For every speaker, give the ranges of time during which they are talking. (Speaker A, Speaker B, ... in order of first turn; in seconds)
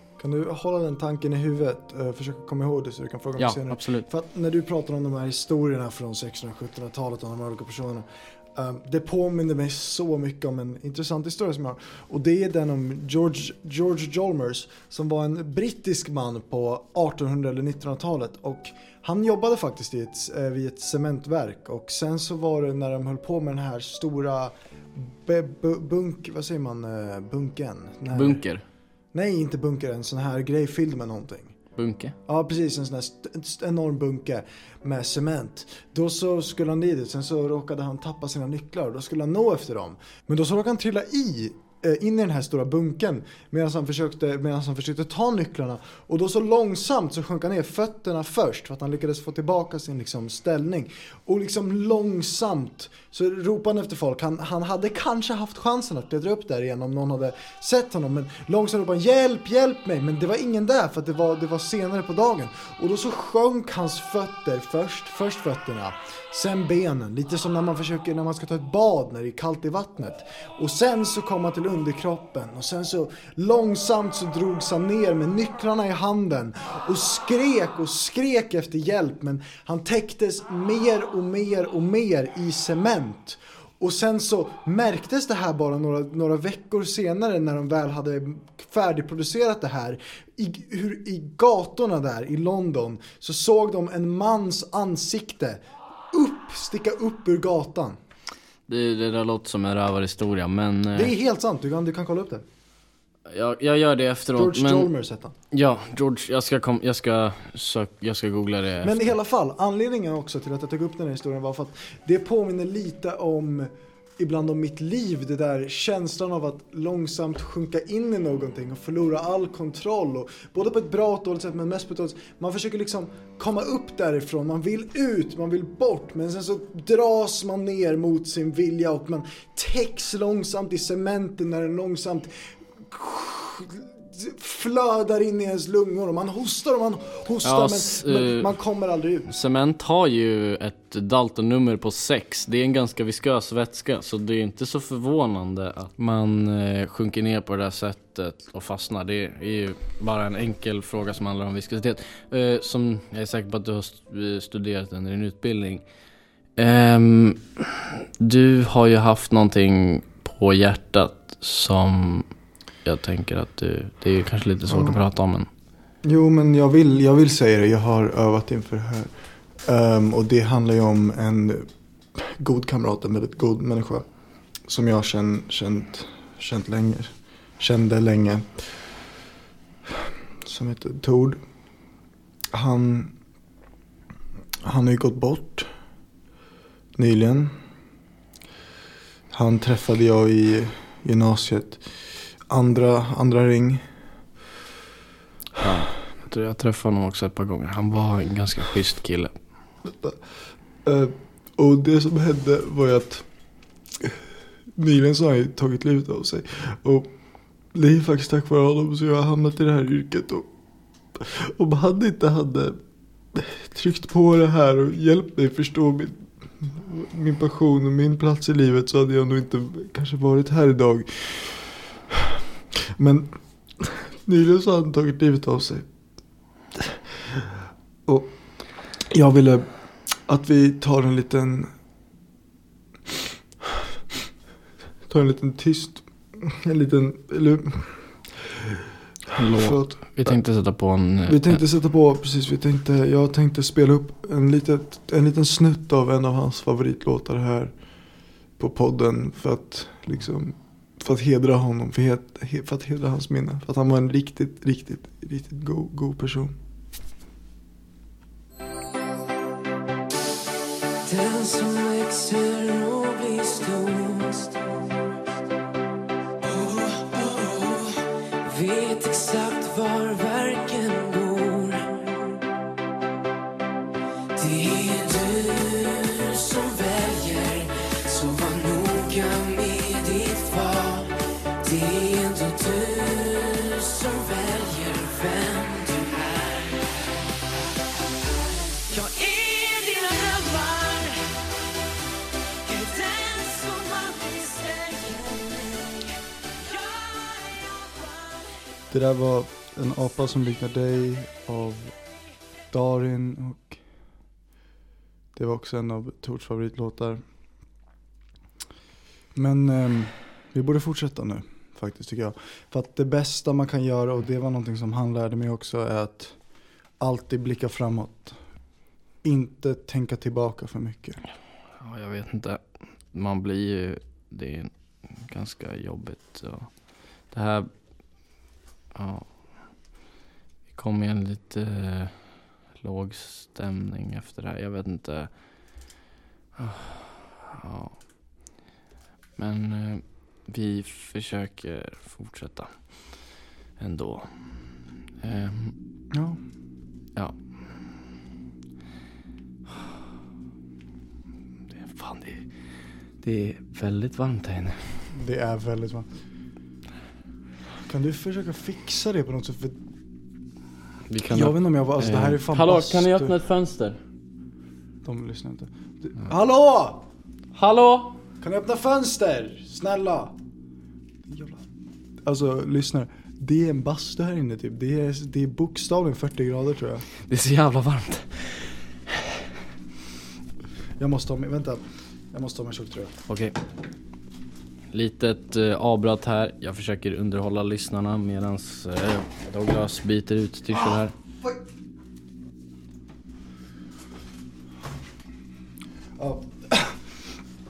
Speaker A: 0.2-28.4, 29.1-31.5, 32.3-98.0, 100.9-102.4, 104.3-105.3, 108.8-139.3, 164.7-165.0, 166.0-169.1, 169.6-174.0, 174.7-178.7, 179.9-181.4, 182.5-183.1, 184.6-185.7, 186.9-187.5, 189.3-191.8, 192.5-193.8, 199.8-200.2, 200.8-203.2, 204.8-207.1, 207.7-210.5, 211.2-212.8, 213.3-222.3, 223.0-225.9, 226.8-227.4, 228.1-228.3, 229.1-229.7, 230.3-231.7, 235.1-238.8, 239.5-240.4, 241.2-247.7, 248.6-256.5, 298.9-301.9, 302.7-303.8, 305.3-307.2, 309.3-316.4, 317.0-318.4, 319.2-321.2, 346.1-346.4, 355.1-356.1, 357.9-359.8, 361.3-363.3, 365.0-367.0, 368.4-370.4, 371.3-371.6, 372.2-377.1, 381.0-383.2, 390.7-391.6, 396.2-397.0
Speaker B: 3.4-4.1, 28.1-28.6, 31.8-32.1, 98.7-101.1, 103.3-104.9, 105.5-109.1, 137.4-138.5, 139.2-155.8, 156.6-162.3, 162.8-165.5, 195.6-199.4, 239.3-241.6, 321.8-327.7, 328.9-329.4, 330.7-335.8, 336.6-338.0, 339.4-343.2, 343.8-344.3, 345.2-345.7, 351.7-352.5, 353.2-354.9, 361.1-364.0, 367.5-368.2, 377.2-379.1, 383.3-383.6, 384.9-391.1
Speaker C: 261.0-264.7, 266.4-272.4, 274.3-287.0, 288.8-291.4, 292.6-298.6